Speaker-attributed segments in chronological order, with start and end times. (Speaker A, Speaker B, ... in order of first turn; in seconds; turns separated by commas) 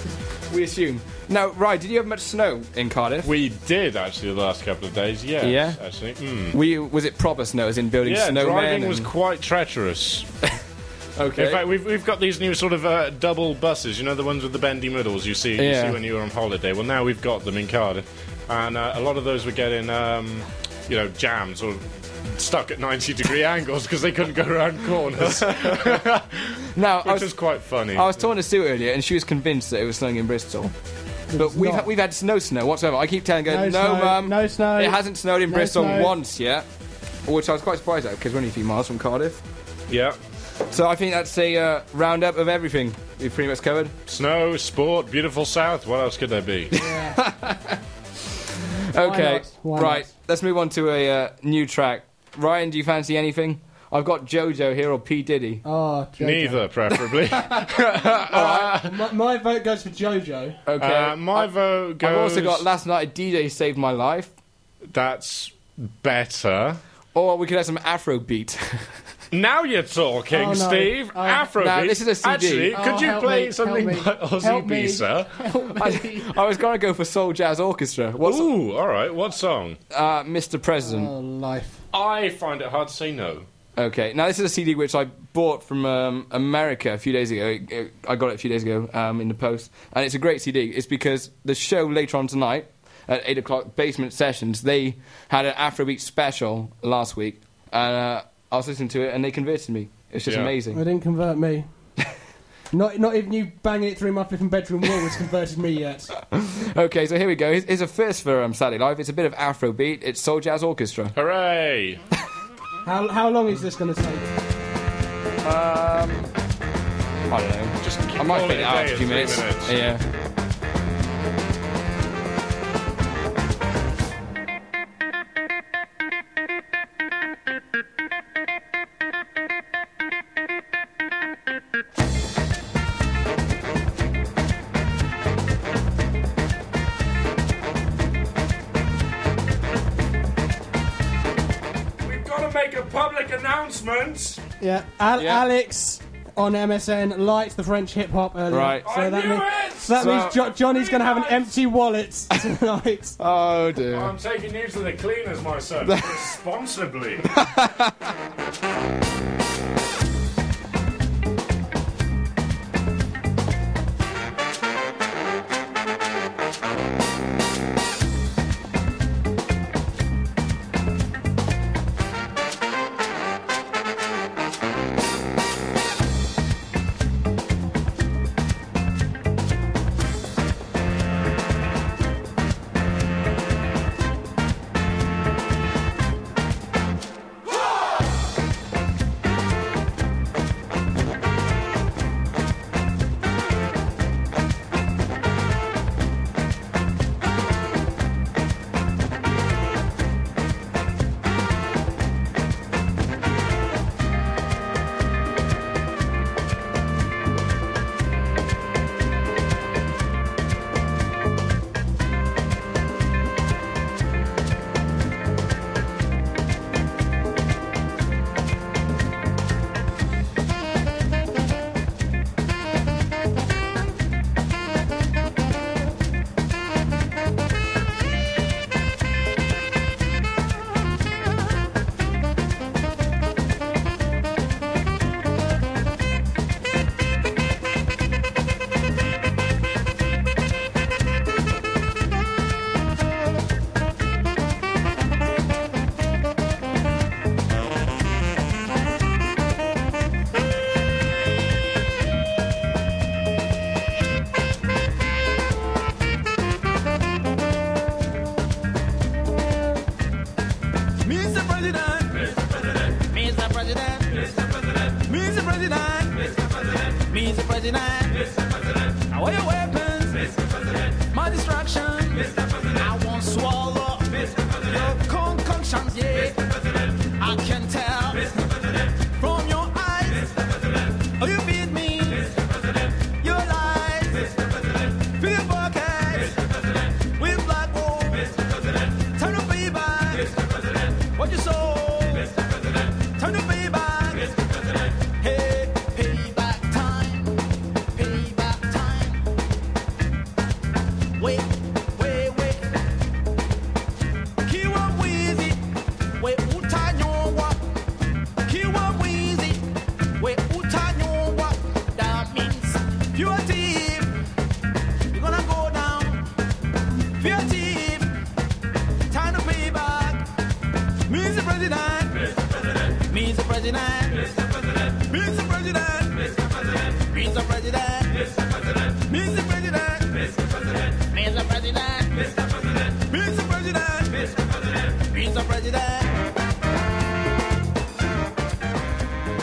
Speaker A: 0.5-3.3, Speaker B: 3.2-6.6, Speaker A: 5.4-5.8, Speaker A: 6.5-9.1, Speaker B: 8.0-10.3, Speaker A: 11.2-11.6, Speaker B: 11.3-21.8, Speaker A: 15.6-16.0, Speaker B: 22.4-28.3, Speaker A: 25.2-26.0, Speaker A: 26.7-30.7, Speaker C: 31.3-31.9, Speaker A: 31.4-36.6, Speaker C: 33.5-36.1, Speaker A: 37.2-39.4, Speaker B: 39.9-40.2, Speaker A: 40.7-43.9, Speaker B: 44.1-46.7, Speaker C: 46.8-47.2, Speaker A: 46.8-47.8, Speaker A: 48.9-55.6, Speaker C: 49.0-50.1, Speaker C: 55.6-57.7, Speaker B: 56.2-59.0, Speaker C: 58.3-60.6, Speaker A: 60.6-64.3, Speaker B: 60.8-62.6, Speaker B: 64.9-66.8, Speaker A: 67.1-68.9, Speaker B: 69.3-75.4, Speaker C: 70.3-71.5, Speaker A: 71.6-72.8, Speaker C: 72.7-76.3, Speaker A: 75.7-78.5, Speaker B: 78.2-79.8, Speaker A: 79.9-81.1, Speaker C: 80.8-81.8, Speaker B: 81.9-83.5, Speaker A: 83.8-100.8, Speaker B: 100.2-100.5, Speaker C: 100.7-101.7, Speaker C: 102.7-106.1, Speaker A: 106.3-111.1, Speaker B: 111.1-112.0, Speaker C: 112.8-114.2, Speaker A: 115.4-116.3, Speaker A: 117.3-120.0, Speaker B: 117.8-119.8, Speaker B: 142.0-144.4, Speaker C: 144.6-153.1, Speaker A: 145.2-145.4, Speaker A: 148.5-148.8, Speaker B: 148.8-151.5, Speaker A: 150.0-150.4, Speaker A: 153.2-154.1, Speaker B: 153.9-157.3, Speaker A: 155.8-156.1, Speaker A: 157.3-157.9, Speaker D: 261.0-262.2, Speaker D: 263.1-264.3, Speaker D: 265.1-266.3, Speaker D: 267.1-268.2, Speaker D: 269.1-270.3, Speaker D: 271.1-276.4, Speaker D: 277.2-278.3, Speaker D: 279.2-280.3, Speaker D: 281.2-282.3, Speaker D: 283.2-284.3, Speaker D: 285.1-286.3, Speaker D: 287.2-288.4, Speaker D: 289.1-290.3, Speaker D: 291.1-292.3, Speaker D: 293.1-294.3, Speaker D: 295.2-297.4, Speaker D: 297.9-299.2, Speaker D: 301.2-302.6, Speaker D: 304.4-305.6, Speaker D: 306.2-307.6, Speaker D: 308.5-309.6, Speaker D: 310.2-314.1, Speaker D: 315.1-316.2, Speaker D: 317.2-318.1, Speaker D: 319.1-320.2, Speaker D: 321.1-322.1, Speaker D: 323.1-324.2, Speaker D: 325.1-326.3, Speaker D: 327.1-328.1, Speaker D: 329.1-330.1, Speaker D: 331.1-332.2, Speaker D: 333.1-334.3, Speaker D: 335.1-336.0